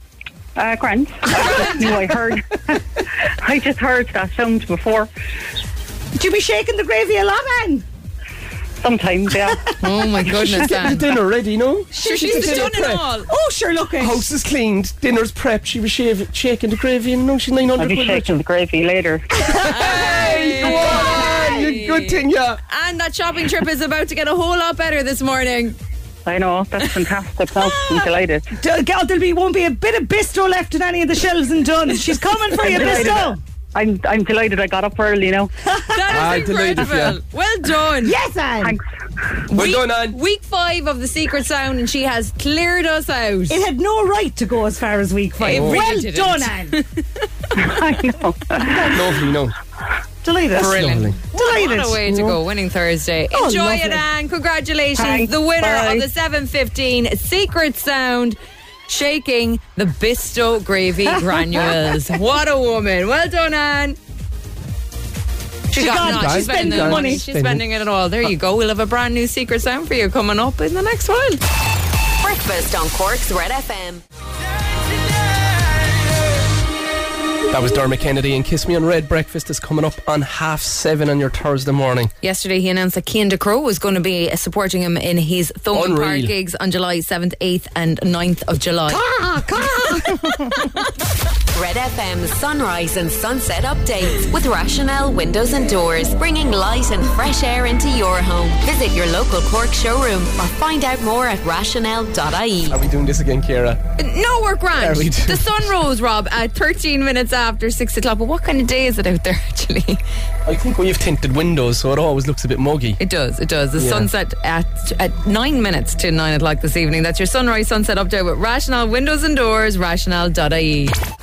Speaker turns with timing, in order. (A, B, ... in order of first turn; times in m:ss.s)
0:00.6-0:05.1 A
0:01.4-0:01.8 B
0:06.2-0:07.8 C
0:08.8-0:09.7 A
0:09.7-0:10.7 C
0:09.8-0:11.1 B
0:10.3-0:13.1 D
0:11.9-0:14.2 C
0:11.9-0:13.3 B
0:14.0-0:18.4 D
0:17.8-0:19.3 A
0:19.4-0:21.7 C
0:19.5-0:22.6 D
0:19.6-0:22.2 B
0:22.7-0:25.8 B
0:26.2-0:28.5 A
0:27.6-0:28.0 B
0:28.5-0:33.4 C
0:32.6-0:35.5 A
0:35.7-0:36.4 C
0:35.9-0:38.2 B
0:36.1-0:37.2 D
0:38.0-0:38.8 C
0:39.5-0:43.6 B
0:39.5-0:40.2 D
0:43.5-0:46.8 C
0:45.4-0:47.2 B
0:45.5-0:45.8 D
0:47.5-0:49.0 A
0:48.6-0:49.0 C
0:48.9-0:49.5 D
0:50.2-0:52.4 C
0:50.6-0:58.4 B
0:50.6-0:51.2 D
0:53.3-0:54.0 C
0:55.0-0:56.0 A
0:58.9-1:04.0 B
1:01.1-1:02.0 C
1:05.7-1:07.2 C
1:05.7-1:11.4 B
1:06.0-1:07.6 D
1:12.2-1:14.0 E
1:17.5-1:22.1 D
1:22.2-1:29.0 B
1:25.7-1:26.3 D
1:28.9-1:30.7 C
1:31.5-1:42.8 E
1:42.7-1:43.8 D
1:44.0-1:50.0 B
1:44.8-1:45.7 D
1:50.4-1:53.0 D
1:53.0-2:00.9 B
1:53.8-1:54.1 D